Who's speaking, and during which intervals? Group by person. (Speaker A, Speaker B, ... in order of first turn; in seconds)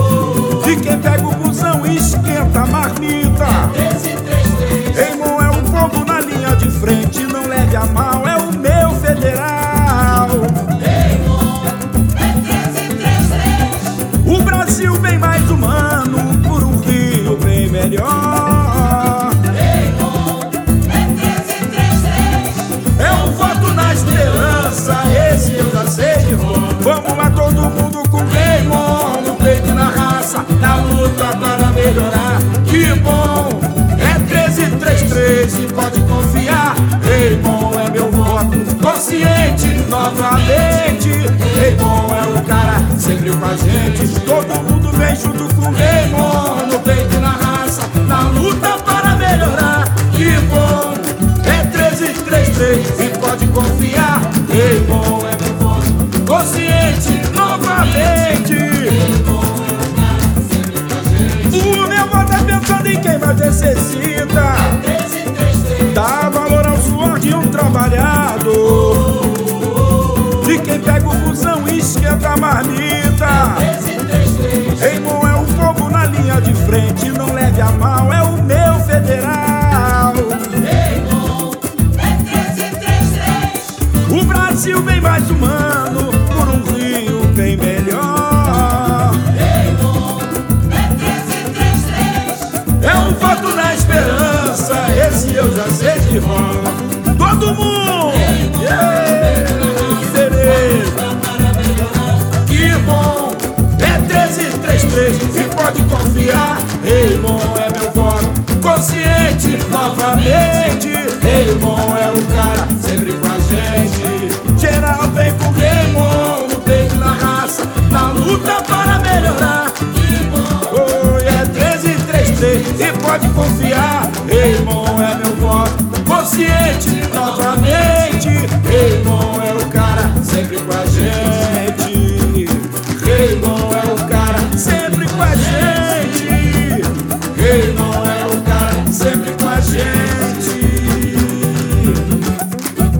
Speaker A: 0.4-10.8, 14.0-19.8, 21.6-59.6, 61.1-81.0, 83.0-89.6, 91.2-142.2